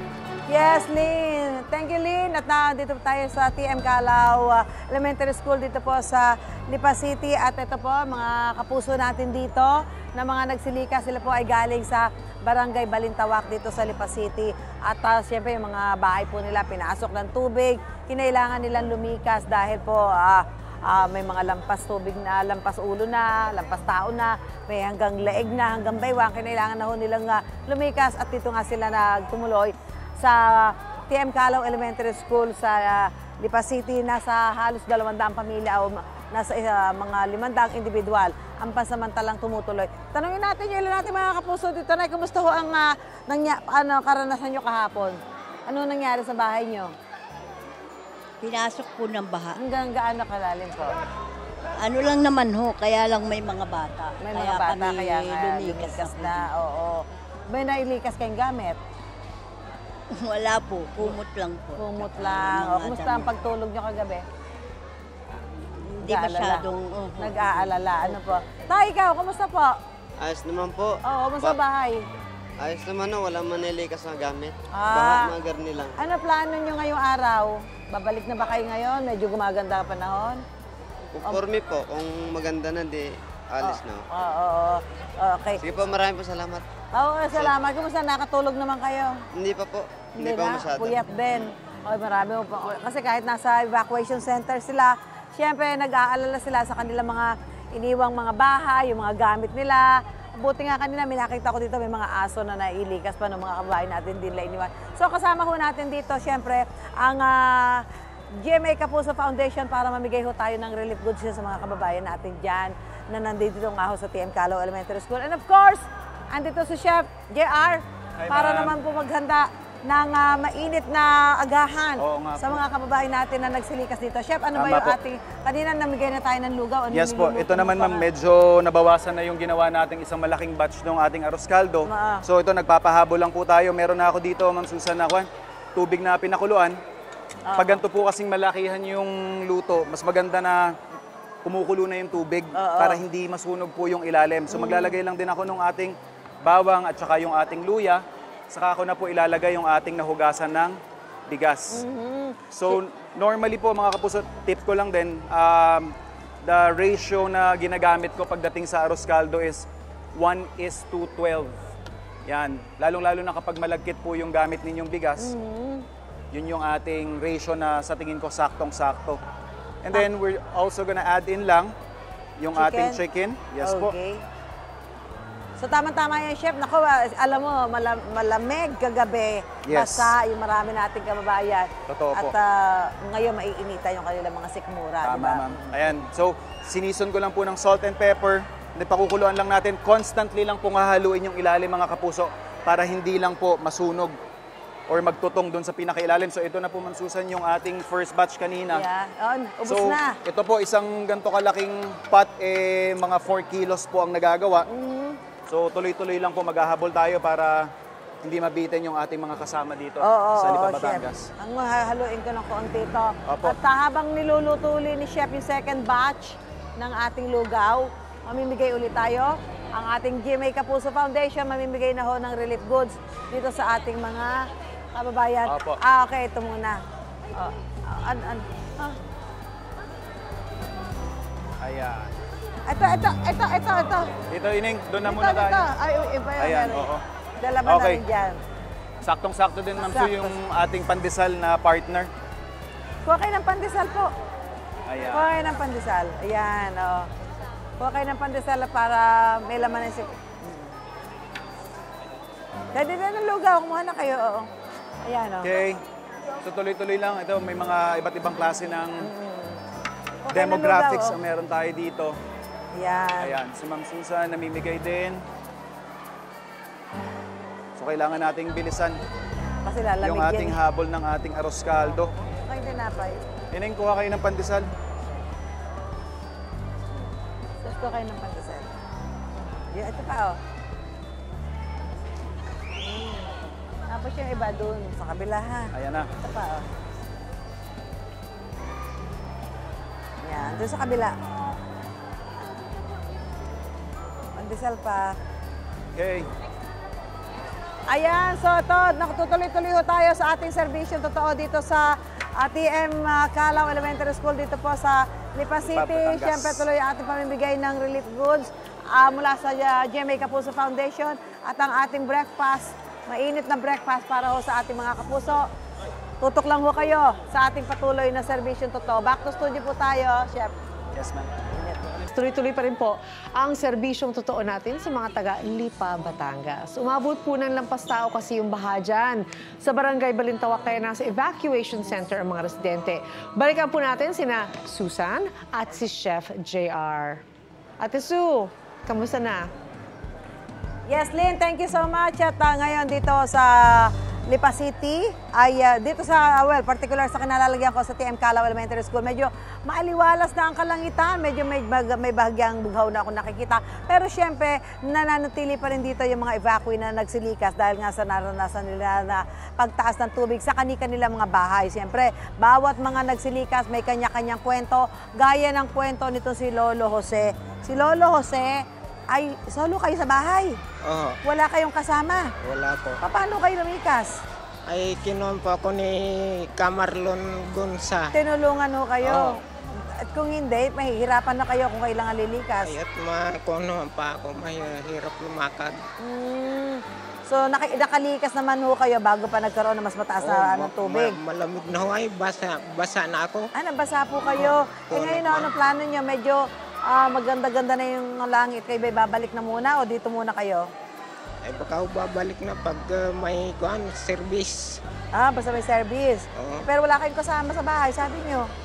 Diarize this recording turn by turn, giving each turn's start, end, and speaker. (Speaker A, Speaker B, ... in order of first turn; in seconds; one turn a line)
Speaker A: 0.5-46.9
Speaker B: 48.4-49.6
Speaker A: 49.6-51.0
Speaker B: 51.8-56.5
Speaker A: 54.2-58.8
Speaker B: 60.1-63.3
Speaker A: 61.8-64.2
Speaker B: 65.7-67.8
Speaker A: 66.0-66.7
Speaker A: 67.2-69.7
Speaker C: 70.2-71.6
Speaker A: 71.1-72.0
Speaker C: 72.6-76.0
Speaker A: 74.8-75.3
Speaker A: 76.0-80.4
Speaker C: 81.1-84.1
Speaker A: 83.6-85.6
Speaker C: 85.6-86.7
Speaker A: 86.9-89.2
Speaker C: 87.3-87.6
Speaker C: 89.3-91.5
Speaker A: 90.2-128.1
Speaker D: 118.2-118.8
Speaker D: 122.0-122.6
Speaker D: 124.5-125.0
Speaker D: 126.9-136.8
Speaker A: 131.9-132.2
Speaker A: 137.5-137.8
Speaker D: 137.6-140.7
Speaker D: 141.4-151.8
Speaker A: 142.5-143.0
Speaker A: 144.5-145.0
Speaker A: 151.7-152.8
Speaker D: 152.5-161.6
Speaker D: 162.3-165.3
Speaker A: 165.2-165.9
Speaker D: 166.3-169.2
Speaker D: 169.8-171.7
Speaker D: 172.4-173.9
Speaker A: 172.5-173.0
Speaker A: 173.6-174.2
Speaker A: 175.6-186.0
Speaker D: 179.7-180.2
Speaker D: 181.9-182.4
Speaker D: 185.0-194.2
Speaker D: 194.9-198.8
Speaker A: 198.7-200.2
Speaker D: 199.7-204.7
Speaker A: 204.7-205.2
Speaker D: 205.5-207.7
Speaker D: 208.2-211.3
Speaker A: 210.0-226.8
Speaker D: 213.3-213.6
Speaker D: 225.4-225.8
Speaker A: 227.3-229.0
Speaker D: 231.6-232.1
Speaker A: 232.7-234.2
Speaker D: 234.3-235.7
Speaker A: 235.0-238.4
Speaker D: 236.4-237.0
Speaker D: 237.7-238.0
Speaker D: 239.0-242.1
Speaker A: 239.8-240.3
Speaker A: 243.1-244.1
Speaker D: 244.9-245.3
Speaker A: 245.1-247.1
Speaker A: 247.8-250.8
Speaker A: 252.7-254.5
Speaker A: 255.0-255.5
Speaker D: 255.4-255.8
Speaker D: 256.4-259.1
Speaker A: 259.0-259.6
Speaker A: 260.3-261.2
Speaker D: 260.3-262.2
Speaker A: 262.8-263.4
Speaker D: 263.2-265.2
Speaker D: 267.8-269.0
Speaker A: 269.6-270.6
Speaker D: 270.0-272.1
Speaker A: 272.4-273.2
Speaker D: 273.5-274.7
Speaker A: 277.6-278.7
Speaker A: 279.7-280.4
Speaker A: 282.8-286.7
Speaker D: 285.7-286.1
Speaker A: 290.2-291.1
Speaker A: 294.4-295.2
Speaker D: 295.9-296.3
Speaker A: 297.9-315.5
Speaker D: 305.6-306.7
Speaker A: 316.2-320.6
Speaker D: 320.9-321.4
Speaker A: 321.6-321.8
Speaker E: 322.1-337.2
Speaker E: 337.8-339.5
Speaker A: 340.9-370.6
Speaker F: 370.8-371.2
Speaker A: 371.2-372.3
Speaker F: 372.4-373.0
Speaker A: 373.0-374.2
Speaker F: 374.7-378.1
Speaker A: 378.1-382.7
Speaker F: 379.0-379.4
Speaker F: 382.6-385.8
Speaker A: 386.0-391.2
Speaker F: 390.2-393.5
Speaker A: 393.6-400.7
Speaker F: 394.3-395.5
Speaker F: 401.4-404.8
Speaker A: 405.1-408.5
Speaker F: 406.3-406.7